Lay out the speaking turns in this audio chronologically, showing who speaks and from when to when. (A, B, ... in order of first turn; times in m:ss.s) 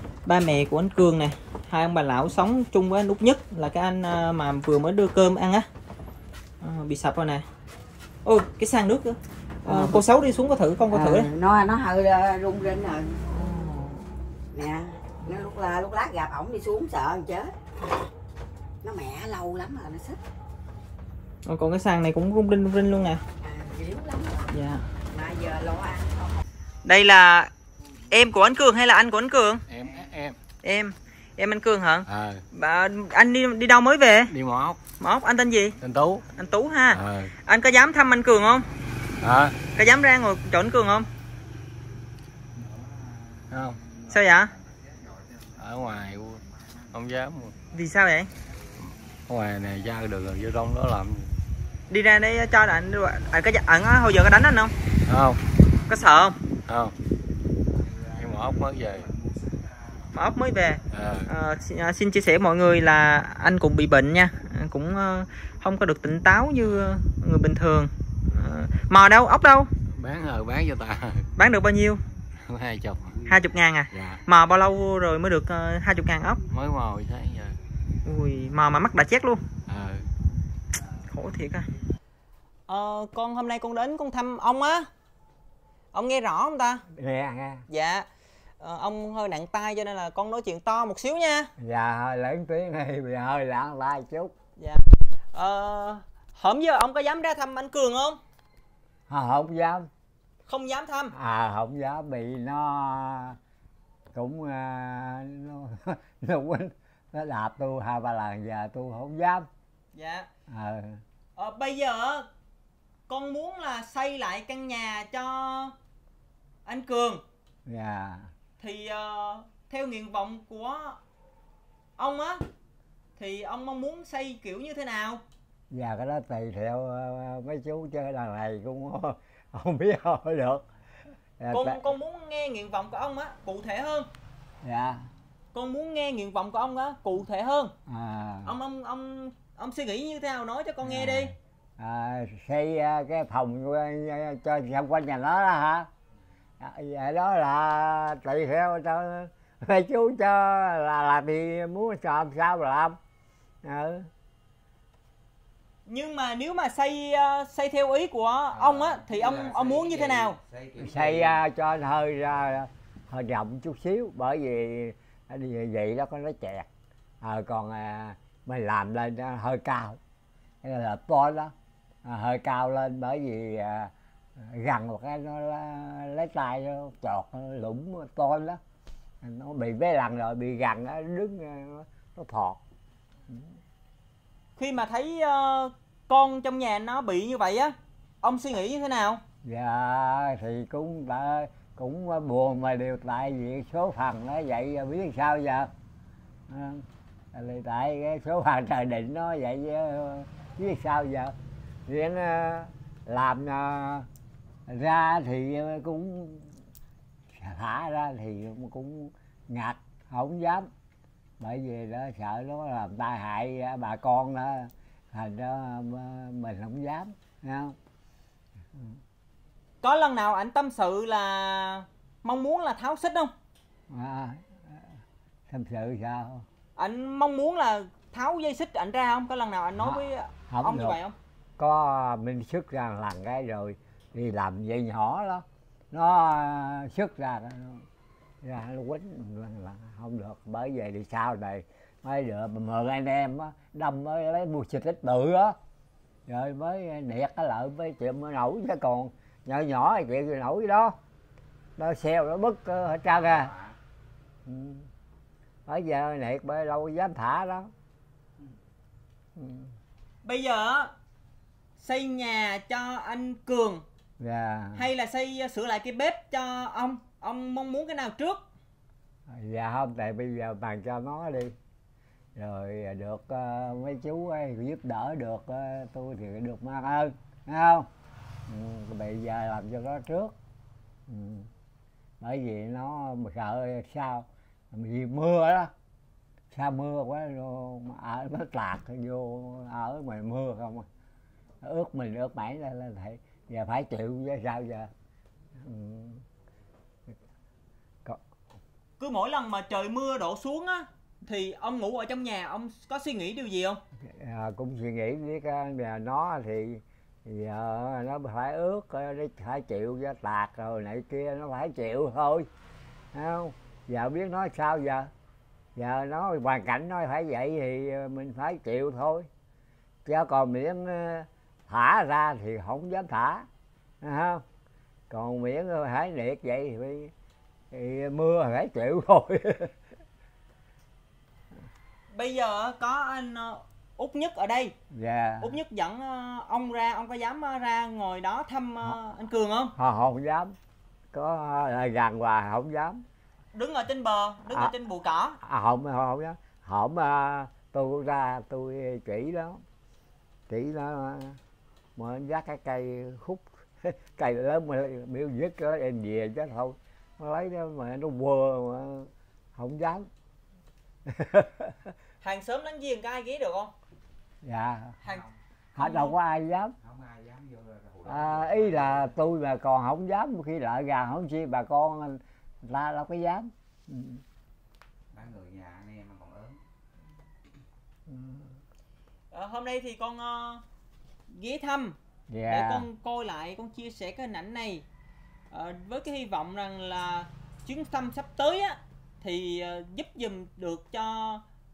0:00.3-0:05.7 A
0:06.6-0:07.5 A
0:08.2-0:11.3 A
0:09.6-0:10.1 B
0:10.9-0:13.2 B
0:13.3-0:13.9 A
0:14.5-0:17.6 B
0:18.8-0:20.2 B
0:21.5-0:23.2 A
0:23.4-0:24.5 B
0:24.5-0:24.8 A
0:25.1-0:26.4 B
0:26.8-0:27.5 A
0:28.1-0:29.6 A
0:29.7-0:30.4 C
0:30.6-0:34.3 A
0:32.1-0:32.4 C
0:34.3-0:34.8 C
0:35.0-0:35.8 A
0:35.8-0:36.2 C
0:36.4-0:38.7 A
0:36.9-0:37.3 C
0:39.2-0:39.6 C
0:39.8-0:41.1 A
0:43.5-0:43.8 C
0:44.1-0:44.5 A
0:45.6-0:47.6 C
0:47.7-0:48.3 A
0:48.8-0:51.3 C
0:51.9-0:54.7 A
0:55.1-0:55.4 C
0:55.9-0:56.4 A
0:56.7-0:56.9 C
0:58.1-0:59.1 C
1:00.1-1:09.7 A
1:00.9-1:01.3 C
1:09.9-1:11.3 C
1:11.4-1:12.0 A
1:12.4-1:13.2 C
1:13.3-1:16.4 A
1:13.9-1:14.2 C
1:16.5-1:17.6 C
1:18.0-1:19.4 A
1:19.7-1:20.0 C
1:21.1-1:21.7 A
1:22.7-1:24.9 A
1:25.9-1:26.8 A
1:26.9-1:27.6 D
1:27.7-1:28.1 A
1:28.6-1:31.5 A
1:31.6-1:34.4 D
1:34.6-1:38.2 A
1:39.1-1:39.9 D
1:40.5-1:41.1 A
1:41.1-1:43.4 D
1:44.1-1:49.5 D
1:50.0-1:50.3 A
1:50.5-1:51.0 D
1:51.4-1:52.3 A
1:53.1-1:55.8 A
1:56.7-1:57.2 A
1:57.7-1:58.3 D
1:58.6-2:01.0 A
2:02.0-2:02.4 A
2:03.2-2:05.2 A
2:05.7-2:10.7 D
2:11.4-2:11.8 D
2:11.5-2:14.1 A
2:14.6-2:15.1 D
2:15.5-2:17.7 A
2:17.9-2:18.6 D
2:18.4-2:21.3 A
2:20.8-2:25.9 D
2:26.6-2:33.0 D
2:33.6-2:34.1 D
2:35.9-2:40.4 A
2:38.5-2:41.4 E
2:40.8-2:46.7 D
2:47.2-2:50.0 D
2:50.6-2:58.6 D
2:59.2-3:02.6 D
3:04.6-3:09.2 A
3:09.4-3:15.7 D
3:16.5-3:24.1 D
3:24.7-3:26.6 D
3:27.3-3:30.7 D
3:31.4-3:37.8 D
3:39.8-3:43.3 A
3:43.9-3:45.0 D
3:45.5-3:46.5 D
3:46.8-3:51.2 A
3:49.8-3:51.0 D
3:51.6-3:57.9 D
3:58.4-4:05.6 D
4:06.3-4:11.0 D
4:11.8-4:13.5 D
4:14.4-4:14.9 D
4:15.7-4:17.7 D
4:19.4-4:19.7 D
4:20.2-4:20.9 A
4:21.8-4:23.8 A
4:24.2-4:24.8 D
4:24.8-4:28.4 A
4:29.3-4:31.6 D
4:32.4-4:37.9 D
4:38.5-4:40.4 D
4:41.1-4:41.5 D
4:42.2-4:45.7 D
4:46.5-4:50.9 D
4:51.6-4:54.9 D
4:55.6-4:56.2 D
4:59.0-5:03.8 A
5:04.0-5:12.5 D
5:13.1-5:15.1 D
5:15.8-5:19.3 D
5:20.0-5:23.5 D
5:24.0-5:24.4 D
5:25.1-5:27.1 D
5:27.7-5:29.8 D
5:32.1-5:34.7 A
5:34.9-5:35.6 D
5:35.4-5:39.8 A
5:39.8-5:40.5 D
5:41.1-5:43.0 D
5:43.5-5:45.4 A
5:45.4-5:49.6 D
5:50.5-5:51.4 D
5:52.0-6:00.1 D
6:01.0-6:01.9 D
6:02.2-6:03.7 A
6:04.4-6:05.0 D
6:05.8-6:06.8 D
6:05.8-6:06.2 A
6:06.8-6:09.2 E
6:08.0-6:14.2 D
6:15.1-6:16.6 E
6:18.1-6:18.5 D
6:19.3-6:20.6 A
6:21.3-6:24.8 A
6:22.3-6:22.9 D
6:25.5-6:31.4 A